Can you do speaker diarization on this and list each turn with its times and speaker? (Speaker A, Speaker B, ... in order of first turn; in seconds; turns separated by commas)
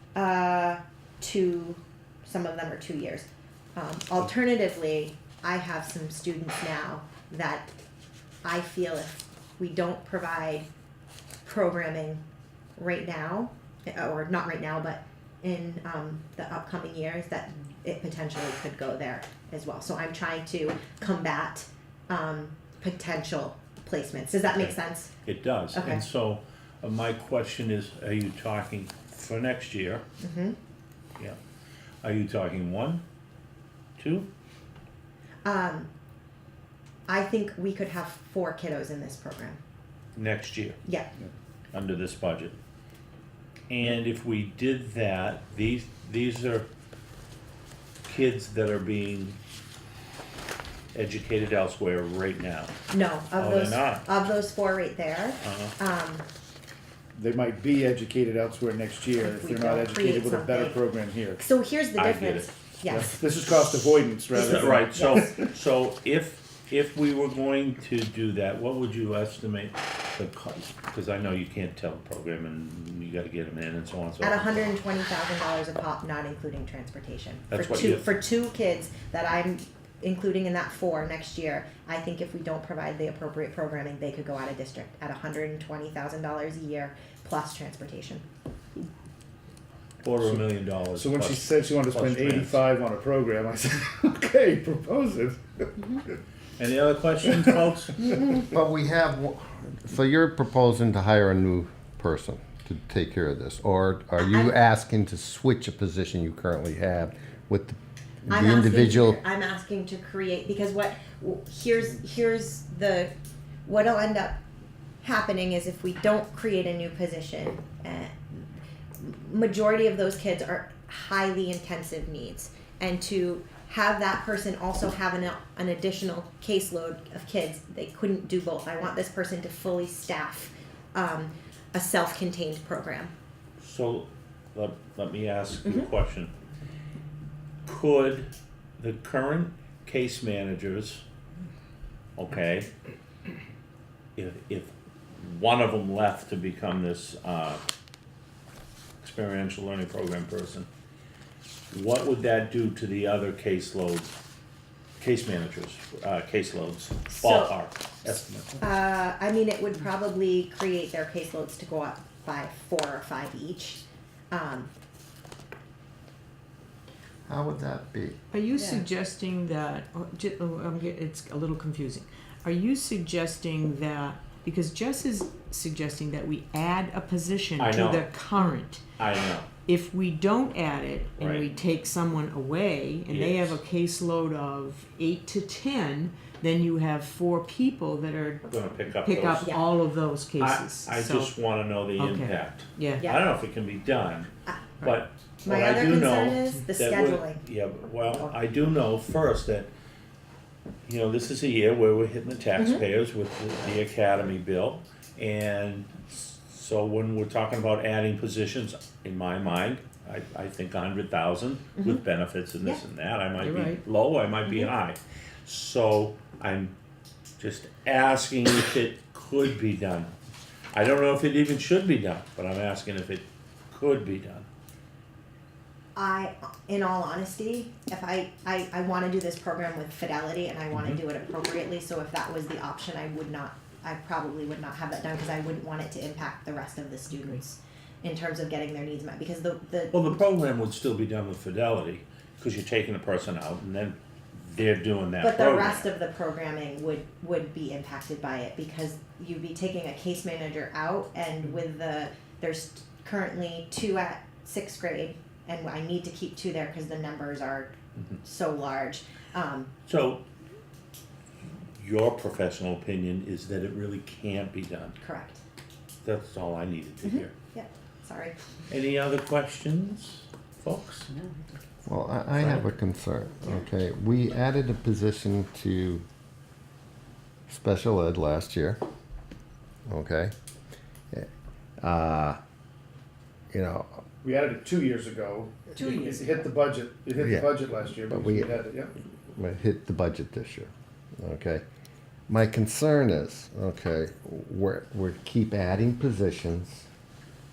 Speaker A: 0.1-7.7, Speaker A: 8.4-10.7, Speaker A: 11.4-12.2, Speaker A: 12.8-25.1, Speaker B: 24.5-30.0, Speaker A: 25.7-26.0, Speaker A: 30.2-30.6, Speaker B: 32.0-33.0, Speaker B: 34.0-34.3, Speaker A: 35.5-35.9, Speaker A: 37.1-39.6, Speaker B: 40.1-40.8, Speaker A: 40.9-41.1, Speaker B: 41.7-42.5, Speaker B: 43.7-46.7, Speaker B: 48.1-49.4, Speaker B: 50.9-52.8, Speaker A: 52.9-56.3, Speaker B: 53.4-54.1, Speaker B: 55.4-55.7, Speaker C: 57.1-61.4, Speaker A: 59.2-60.8, Speaker A: 61.4-63.1, Speaker B: 62.0-62.5, Speaker C: 62.9-65.1, Speaker B: 64.3-74.7, Speaker A: 64.4-65.4, Speaker A: 74.2-88.2, Speaker B: 77.5-78.1, Speaker B: 90.0-92.6, Speaker C: 90.2-96.0, Speaker B: 96.6-97.9, Speaker C: 97.2-97.5, Speaker D: 98.3-109.2, Speaker A: 104.2-104.5, Speaker A: 108.3-113.1, Speaker A: 113.7-114.4, Speaker A: 115.0-118.5, Speaker A: 119.0-133.1, Speaker B: 133.6-136.3, Speaker B: 137.7-141.0, Speaker B: 142.2-142.7, Speaker B: 144.2-147.6, Speaker B: 149.0-150.7, Speaker B: 151.7-154.2, Speaker B: 155.0-158.6, Speaker A: 157.1-157.6, Speaker A: 158.6-164.7, Speaker D: 167.3-168.2, Speaker E: 168.3-178.8, Speaker A: 168.6-168.8, Speaker B: 177.6-178.1, Speaker B: 179.0-179.5, Speaker E: 179.7-191.3, Speaker B: 181.2-181.5, Speaker B: 183.1-183.6, Speaker B: 188.5-189.5, Speaker B: 190.4-199.7, Speaker E: 192.0-193.0, Speaker A: 193.0-193.3, Speaker A: 195.4-197.4, Speaker B: 200.9-216.7, Speaker E: 213.4-213.8, Speaker B: 217.4-220.2, Speaker B: 220.7-224.5, Speaker A: 226.0-240.2, Speaker B: 230.7-231.0, Speaker B: 239.9-245.9, Speaker A: 245.2-259.7, Speaker B: 259.9-260.2, Speaker B: 261.8-265.0, Speaker A: 265.0-265.4, Speaker B: 266.0-267.3, Speaker A: 267.0-268.4, Speaker B: 268.7-271.1, Speaker D: 271.9-276.1, Speaker D: 277.5-278.8, Speaker D: 279.9-280.3, Speaker D: 281.8-282.4, Speaker D: 283.5-284.0, Speaker C: 284.2-288.9, Speaker E: 285.8-286.5, Speaker D: 287.2-288.6, Speaker D: 289.3-291.6, Speaker D: 292.3-296.9